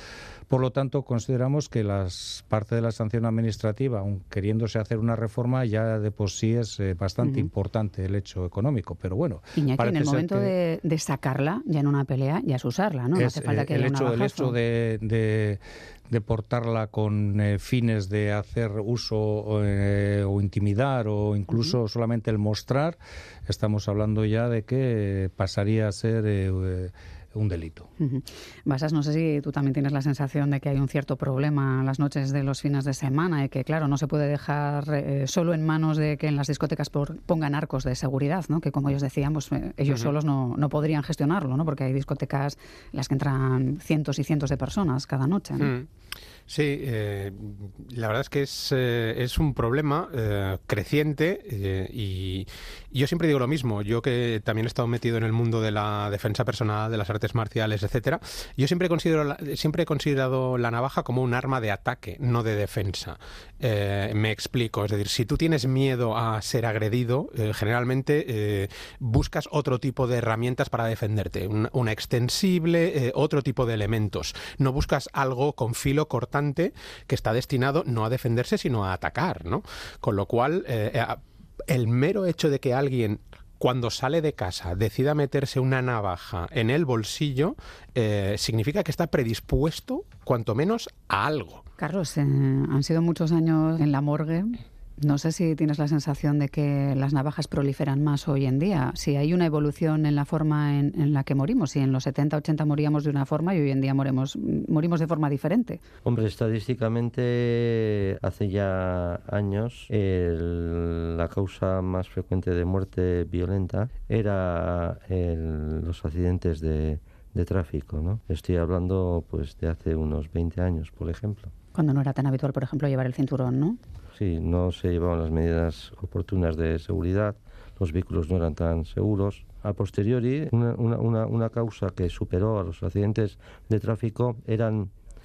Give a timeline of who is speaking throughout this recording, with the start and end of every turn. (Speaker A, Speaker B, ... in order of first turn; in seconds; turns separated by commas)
Speaker A: 0.5-10.5, Speaker B: 7.2-7.5, Speaker B: 9.6-14.5, Speaker A: 13.1-27.9, Speaker B: 28.0-45.7, Speaker C: 45.6-45.9, Speaker C: 46.5-91.6, Speaker B: 91.8-105.8, Speaker D: 106.0-121.5, Speaker B: 121.7-123.8, Speaker D: 124.2-134.9